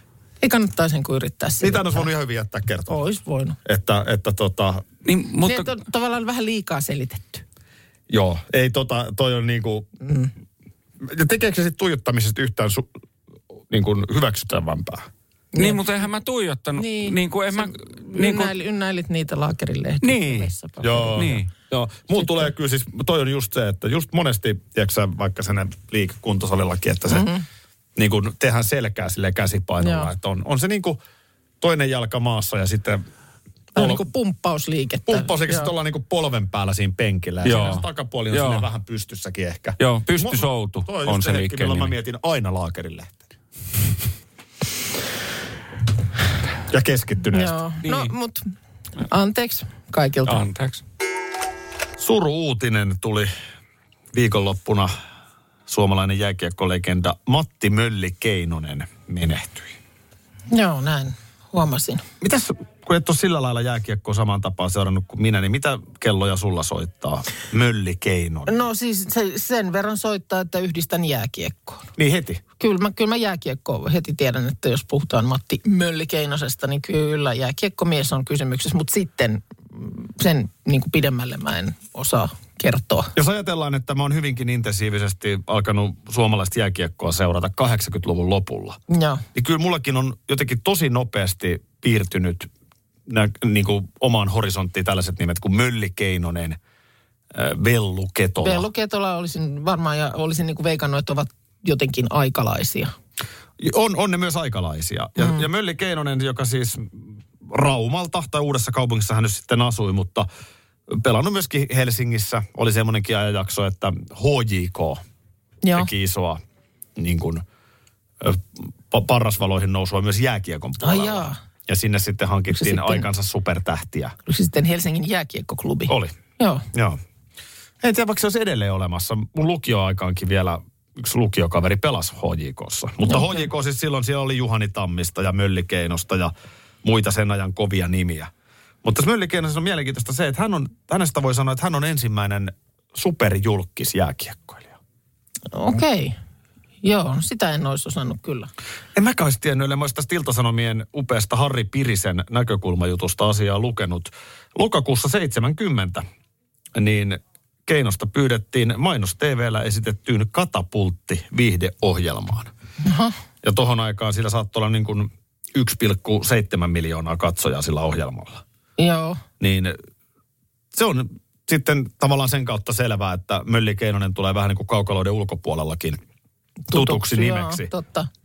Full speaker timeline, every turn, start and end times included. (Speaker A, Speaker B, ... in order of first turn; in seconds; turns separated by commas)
Speaker A: 0.4-2.1, Speaker B: 1.6-3.0, Speaker A: 2.9-3.6, Speaker B: 3.6-4.8, Speaker C: 5.0-5.7, Speaker A: 5.4-7.4, Speaker B: 8.1-9.9, Speaker A: 10.0-10.3, Speaker B: 11.0-12.9, Speaker B: 13.7-15.1, Speaker A: 15.5-15.8, Speaker C: 15.6-18.5, Speaker A: 16.8-21.2, Speaker C: 20.0-20.5, Speaker B: 20.8-27.3, Speaker C: 21.1-21.5, Speaker A: 27.1-27.4, Speaker B: 27.9-31.0, Speaker A: 29.8-30.1, Speaker B: 31.6-33.0, Speaker A: 33.7-35.7, Speaker B: 33.8-34.0, Speaker B: 35.1-43.2, Speaker C: 37.4-38.6, Speaker C: 39.8-41.9, Speaker B: 46.7-47.6, Speaker A: 47.3-48.4, Speaker C: 47.8-48.1, Speaker A: 49.1-50.4, Speaker C: 50.3-50.8, Speaker B: 52.0-53.3, Speaker B: 54.1-54.9, Speaker B: 55.7-59.8, Speaker A: 60.5-62.0, Speaker B: 62.2-68.5, Speaker A: 68.5-71.9, Speaker B: 72.0-72.4, Speaker A: 72.6-83.1, Speaker B: 83.1-88.8, Speaker A: 88.9-89.2, Speaker B: 89.3-92.5, Speaker B: 93.1-96.6, Speaker B: 97.3-98.7, Speaker A: 98.4-102.9, Speaker B: 103.6-110.3, Speaker A: 105.2-105.4, Speaker B: 110.9-115.0, Speaker A: 115.6-115.9, Speaker B: 115.7-116.4, Speaker B: 117.0-117.4, Speaker B: 118.2-124.1, Speaker A: 120.8-121.4, Speaker A: 122.5-123.1, Speaker A: 124.3-126.6, Speaker B: 125.9-126.1, Speaker B: 126.7-127.0, Speaker B: 127.8-138.3, Speaker A: 133.0-133.5, Speaker B: 138.8-144.8, Speaker A: 145.5-146.2, Speaker A: 146.8-148.5, Speaker B: 148.9-156.0, Speaker B: 156.7-162.5, Speaker A: 162.8-163.1, Speaker B: 163.4-168.4, Speaker A: 168.8-169.2, Speaker B: 169.4-169.8, Speaker B: 170.7-176.0, Speaker A: 176.7-178.1, Speaker B: 176.7-177.7